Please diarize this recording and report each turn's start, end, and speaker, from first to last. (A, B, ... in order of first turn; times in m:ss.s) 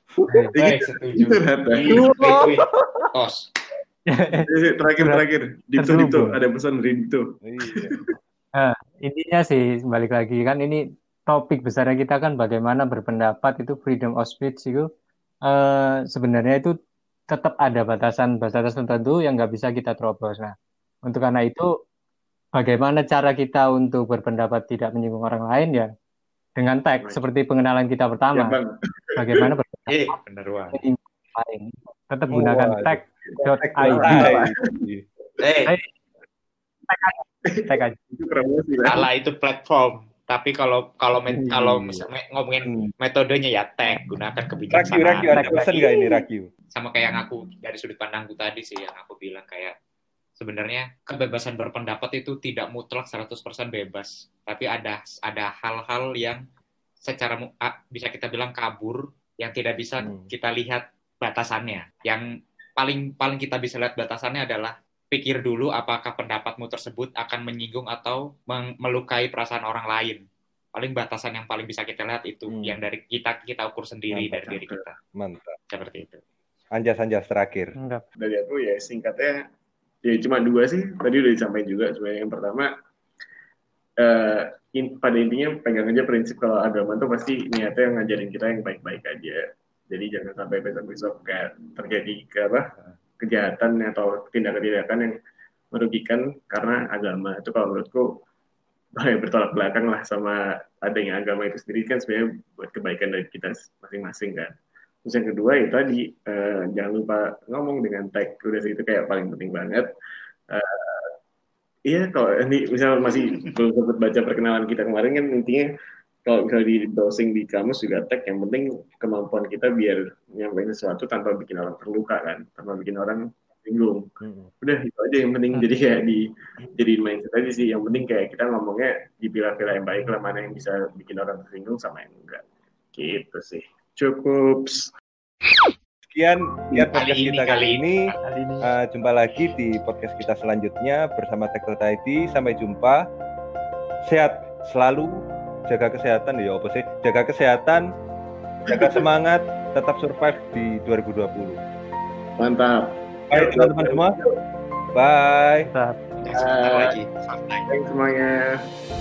0:00.4-0:02.1 A
0:00.6-0:03.5 B
0:02.0-0:03.0 C
0:04.1-0:04.5 D
0:04.3-0:08.1 A
0:05.8-0:06.4 D
0:07.4-0:08.1 C
0:08.6-0:14.9 D
0:15.5-0:16.7 D
0:17.3-0:20.5 D
0:21.0-0:21.7 D
0:22.6-0:25.9 D
0:26.6-0:28.6 D
0:28.3-0:29.5 A
0:29.2-0:30.2 D
0:29.9-0:30.8 B
0:30.7-0:34.2 D
0:32.3-0:35.0 C
0:33.2-0:34.6 A
0:35.4-0:35.7 B
0:36.9-0:38.0 D
0:37.4-0:39.0 A
0:38.8-0:45.7 B
0:41.3-0:42.0 C
0:42.6-0:42.9 C
0:44.7-0:46.5 C
0:45.3-0:46.2 D
0:46.7-0:49.7 B
0:50.4-0:56.4 B
0:57.0-1:02.2 B
1:00.0-1:00.3 C
1:02.8-1:10.2 B
1:10.7-1:15.0 B
1:12.5-1:12.8 C
1:14.1-1:14.6 C
1:15.1-1:15.6 C
1:15.7-1:16.2 B
1:16.8-1:17.7 C
1:17.8-1:18.0 D
1:18.2-1:19.4 A
1:20.0-1:22.7 A
1:24.0-1:35.1 A
1:32.7-1:33.0 B
1:35.7-1:38.0 A
1:39.0-1:44.5 A
1:45.0-1:49.9 A
1:50.5-1:51.1 A
1:51.9-1:55.7 A
1:56.2-2:04.1 A
2:04.2-2:04.5 C
2:04.6-2:06.2 A
2:06.8-2:12.4 A
2:12.9-2:14.9 A
2:16.0-2:18.0 C
2:16.8-2:18.2 B
2:18.2-2:18.7 D
2:18.6-2:23.0 C
2:24.0-2:27.9 C
2:28.7-2:29.0 A
2:28.7-2:31.6 C
2:32.4-2:34.3 A
2:33.3-2:34.2 C
2:34.9-2:35.7 C
2:35.7-2:36.0 D
2:36.2-2:37.7 B
2:36.3-2:37.0 A
2:37.7-2:38.6 A